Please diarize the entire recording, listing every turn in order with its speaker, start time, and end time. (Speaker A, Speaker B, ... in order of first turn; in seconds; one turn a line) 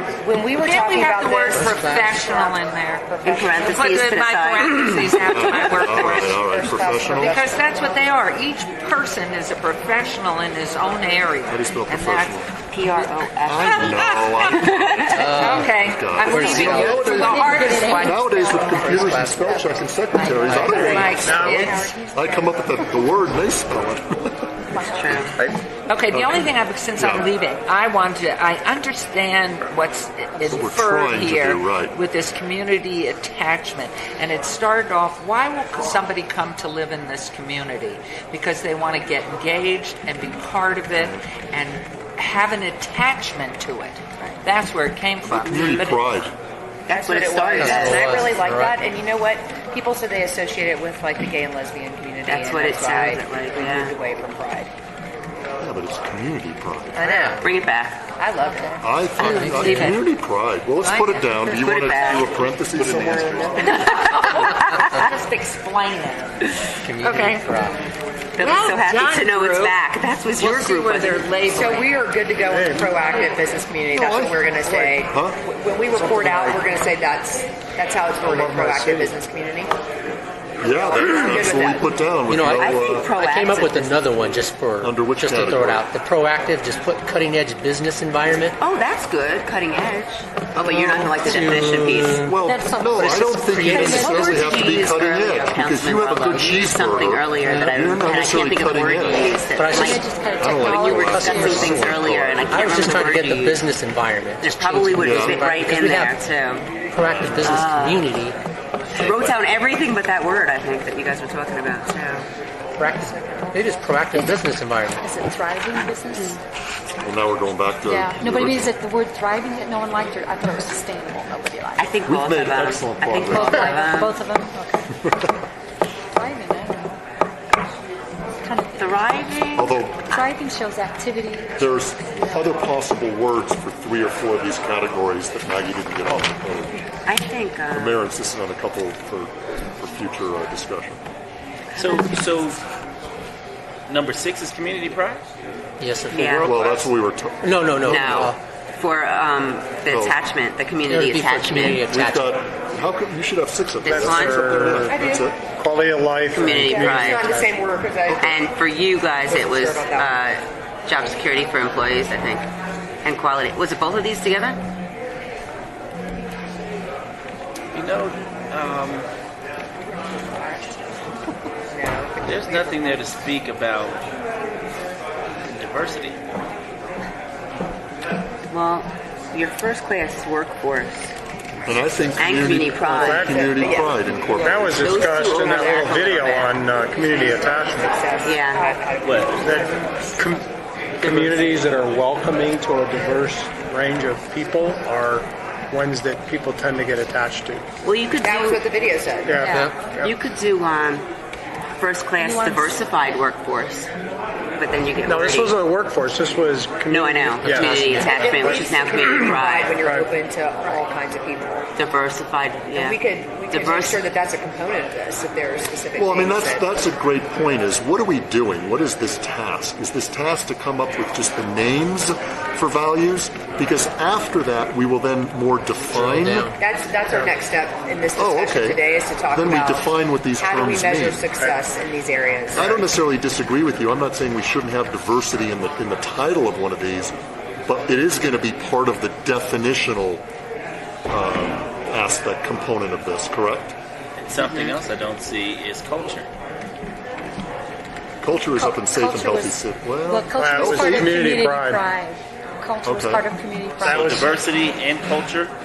Speaker A: 0.2-4.1
Speaker B: 0.5-18.3
Speaker C: 1.5-2.2
Speaker D: 3.2-6.0
Speaker E: 5.3-7.5
Speaker A: 6.0-7.6
Speaker E: 11.5-12.5
Speaker D: 12.7-15.2
Speaker E: 13.4-24.5
Speaker C: 15.1-15.8
Speaker C: 16.3-17.1
Speaker F: 16.8-20.7
Speaker C: 18.4-19.6
Speaker B: 20.2-22.0
Speaker C: 20.4-21.1
Speaker G: 20.6-21.8
Speaker A: 21.4-22.5
Speaker F: 21.6-22.4
Speaker F: 24.7-25.3
Speaker D: 24.9-25.4
Speaker B: 25.9-46.1
Speaker E: 26.1-27.3
Speaker E: 30.4-32.0
Speaker E: 45.2-46.3
Speaker D: 46.9-48.2
Speaker A: 46.9-54.7
Speaker C: 47.5-48.8
Speaker D: 52.2-53.9
Speaker E: 55.6-57.0
Speaker A: 56.9-57.6
Speaker C: 57.0-57.4
Speaker D: 57.4-58.0
Speaker A: 58.2-58.8
Speaker E: 58.8-64.0
Speaker B: 59.1-60.0
Speaker C: 59.2-59.9
Speaker B: 60.8-62.2
Speaker D: 61.6-62.3
Speaker A: 62.8-64.0
Speaker D: 63.6-65.0
Speaker B: 63.9-66.5
Speaker C: 66.8-67.8
Speaker B: 67.0-67.5
Speaker D: 68.4-71.3
Speaker B: 68.4-69.8
Speaker B: 70.3-71.9
Speaker A: 71.4-79.7
Speaker G: 72.5-73.0
Speaker E: 73.9-74.4
Speaker G: 74.7-75.0
Speaker E: 75.0-75.4
Speaker G: 76.0-76.7
Speaker G: 78.2-79.2
Speaker E: 80.6-83.1
Speaker A: 80.7-81.9
Speaker C: 82.3-88.6
Speaker D: 82.6-84.0
Speaker E: 84.8-85.8
Speaker D: 88.6-92.2
Speaker E: 90.6-91.4
Speaker C: 91.2-94.3
Speaker E: 92.2-99.3
Speaker F: 92.4-94.7
Speaker D: 93.6-103.7
Speaker C: 97.4-97.8
Speaker C: 99.5-100.0
Speaker F: 99.7-101.8
Speaker E: 100.4-103.0
Speaker C: 101.0-106.2
Speaker D: 104.4-106.7
Speaker E: 105.0-105.4
Speaker C: 106.9-108.4
Speaker E: 107.1-107.5
Speaker D: 107.4-108.1
Speaker E: 108.9-109.4
Speaker D: 108.9-112.3
Speaker C: 112.8-115.0
Speaker A: 113.0-113.7
Speaker F: 114.1-116.4
Speaker E: 117.0-118.7
Speaker F: 117.8-121.9
Speaker D: 121.8-124.2
Speaker E: 122.0-123.8
Speaker F: 123.2-124.8
Speaker F: 126.1-127.0
Speaker F: 128.4-129.4
Speaker D: 128.8-130.2
Speaker E: 129.5-130.2
Speaker F: 130.1-131.8
Speaker E: 131.6-136.8
Speaker D: 137.1-138.1
Speaker E: 137.7-141.0
Speaker D: 141.8-142.0
Speaker H: 141.8-142.6
Speaker H: 143.9-145.2
Speaker C: 145.8-146.4
Speaker D: 146.1-146.5
Speaker H: 146.1-146.9
Speaker E: 146.4-148.3
Speaker C: 147.4-148.4
Speaker D: 147.8-151.9
Speaker E: 149.9-150.2
Speaker C: 150.9-152.4
Speaker E: 151.8-155.4
Speaker D: 153.8-154.8
Speaker G: 153.8-154.9
Speaker A: 154.8-155.3
Speaker G: 155.4-157.5
Speaker D: 156.3-157.3
Speaker A: 156.4-158.4
Speaker E: 158.1-158.3
Speaker D: 158.2-162.5
Speaker A: 159.2-160.2
Speaker D: 163.0-164.6
Speaker H: 167.7-169.1
Speaker A: 171.7-172.9
Speaker H: 172.2-174.0
Speaker H: 175.5-176.2
Speaker D: 178.5-181.1
Speaker E: 181.7-185.2
Speaker D: 182.2-183.5
Speaker G: 182.8-183.5
Speaker A: 183.3-184.0
Speaker G: 184.4-188.1
Speaker D: 184.7-186.6
Speaker A: 185.4-185.9
Speaker A: 187.0-190.2
Speaker D: 188.2-188.7
Speaker H: 189.0-189.6
Speaker G: 189.4-190.4
Speaker H: 191.0-191.9
Speaker G: 191.0-197.7
Speaker D: 197.8-198.7
Speaker A: 198.2-199.6
Speaker G: 199.2-200.1
Speaker F: 199.4-199.7
Speaker D: 200.0-201.1
Speaker D: 201.8-203.9
Speaker F: 202.2-202.8
Speaker D: 204.5-205.6
Speaker G: 205.0-208.4
Speaker D: 206.9-209.8
Speaker C: 207.4-208.1
Speaker A: 207.8-211.7
Speaker F: 208.4-208.9
Speaker G: 209.0-210.1
Speaker D: 211.8-214.0
Speaker A: 212.7-216.7
Speaker E: 215.9-226.5
Speaker C: 225.9-226.6
Speaker A: 226.6-232.9
Speaker G: 227.1-227.3
Speaker E: 228.2-231.2
Speaker G: 231.4-231.6
Speaker E: 232.5-237.1
Speaker E: 237.7-240.2
Speaker E: 241.1-243.8
Speaker H: 244.2-246.3
Speaker E: 248.2-251.3
Speaker F: 248.5-254.1
Speaker G: 250.3-251.9
Speaker E: 252.8-253.3
Speaker H: 253.8-255.5
Speaker E: 253.8-254.3
Speaker G: 253.8-254.3